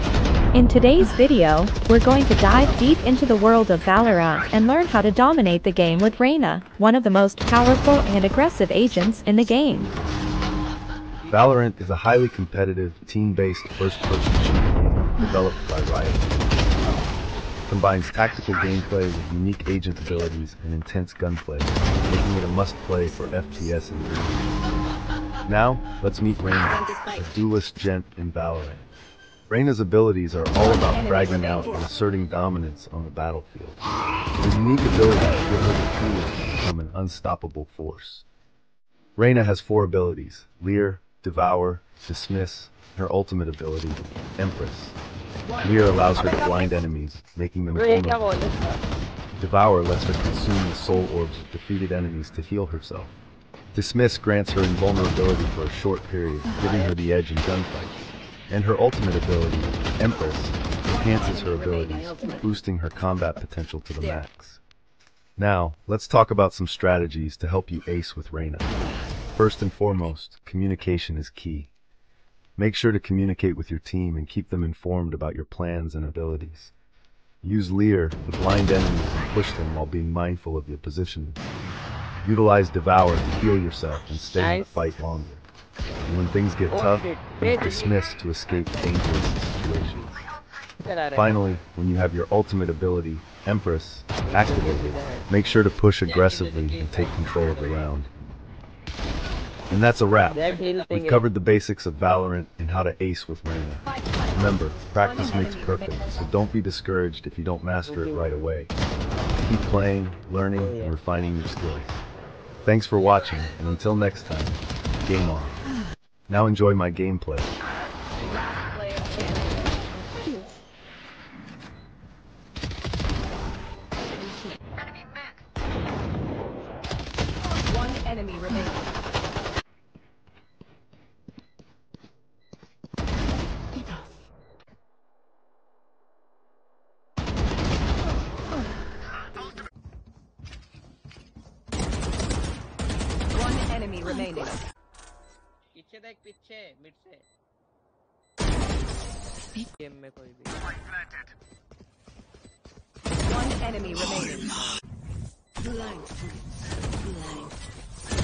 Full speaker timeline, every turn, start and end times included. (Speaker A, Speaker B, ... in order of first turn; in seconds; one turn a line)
Speaker A: 0.5-9.9
Speaker B: 11.2-11.5
Speaker C: 11.3-16.4
Speaker C: 17.7-24.5
Speaker C: 25.4-28.9
Speaker C: 29.5-33.8
Speaker C: 34.4-38.2
Speaker C: 39.1-45.0
Speaker C: 45.6-48.4
Speaker B: 47.7-48.8
Speaker C: 49.4-53.1
Speaker C: 53.7-64.6
Speaker C: 65.4-68.7
Speaker C: 69.3-71.7
Speaker C: 72.6-76.7
Speaker C: 77.4-81.4
Speaker C: 82.2-85.4
Speaker B: 84.1-84.8
Speaker C: 86.0-90.2
Speaker B: 86.7-88.9
Speaker B: 90.8-91.6
Speaker C: 91.1-98.1
Speaker B: 94.3-95.3
Speaker B: 96.0-97.9
Speaker C: 99.7-108.7
Speaker B: 100.2-101.2
Speaker B: 107.8-108.3
Speaker C: 109.4-112.0
Speaker B: 110.5-110.9
Speaker C: 112.6-115.6
Speaker C: 116.3-117.5
Speaker D: 118.9-119.2
Speaker D: 127.9-128.6
Speaker D: 143.7-144.5
Speaker B: 145.7-147.2
Speaker B: 149.8-150.6
Speaker D: 153.6-154.4